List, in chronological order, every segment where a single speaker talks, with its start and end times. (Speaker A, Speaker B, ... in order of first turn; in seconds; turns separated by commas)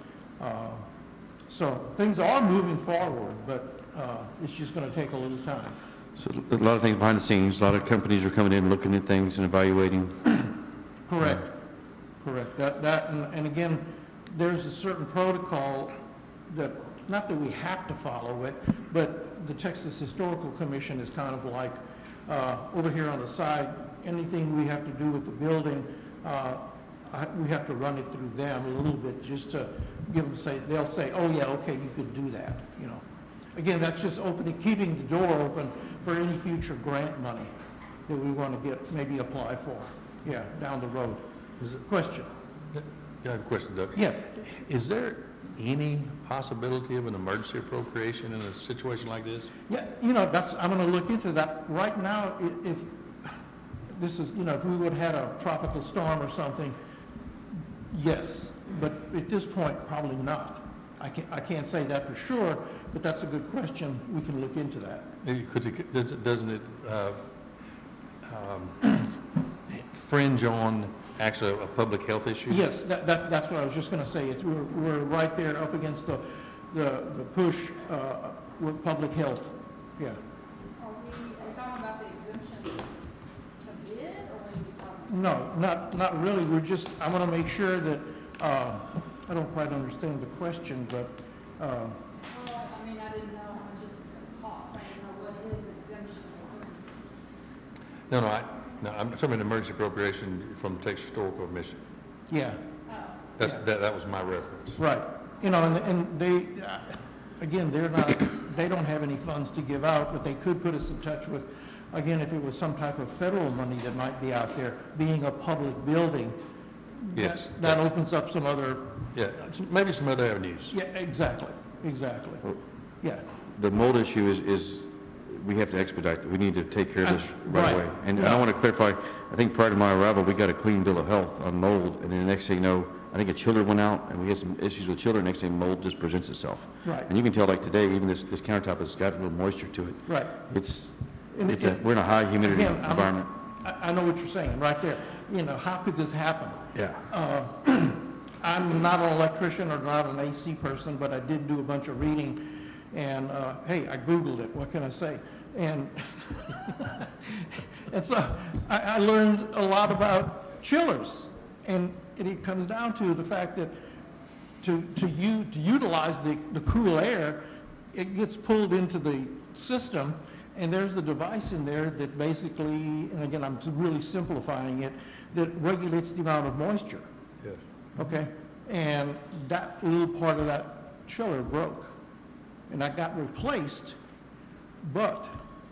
Speaker A: 0.4-0.9, Speaker A: 1.5-5.8, Speaker B: 6.2-10.3, Speaker A: 11.1-11.5, Speaker A: 12.2-15.9, Speaker A: 16.5-33.0, Speaker A: 33.5-37.5, Speaker A: 38.1-41.3, Speaker A: 41.8-42.3, Speaker C: 42.7-49.5, Speaker A: 44.0-44.2, Speaker A: 49.7-53.3, Speaker A: 53.9-56.8, Speaker A: 57.9-65.1, Speaker C: 65.2-67.2, Speaker C: 68.2-69.1, Speaker C: 69.7-72.7, Speaker A: 72.5-80.2, Speaker D: 80.8-82.9, Speaker D: 83.6-85.4, Speaker A: 85.1-92.0, Speaker D: 92.3-96.9, Speaker C: 98.1-101.8, Speaker A: 102.3-102.6, Speaker D: 102.9-103.2, Speaker C: 103.4-104.8, Speaker A: 104.8-116.4, Speaker A: 117.0-119.0, Speaker C: 117.1-117.9, Speaker C: 119.1-120.7, Speaker A: 120.7-123.2, Speaker B: 123.5-143.3, Speaker A: 127.0-128.4, Speaker A: 136.8-137.1, Speaker A: 140.1-140.4, Speaker A: 141.3-141.8, Speaker A: 142.4-163.8, Speaker B: 146.8-147.0, Speaker A: 164.6-177.1, Speaker A: 178.0-181.9, Speaker A: 182.7-184.0, Speaker A: 184.8-185.4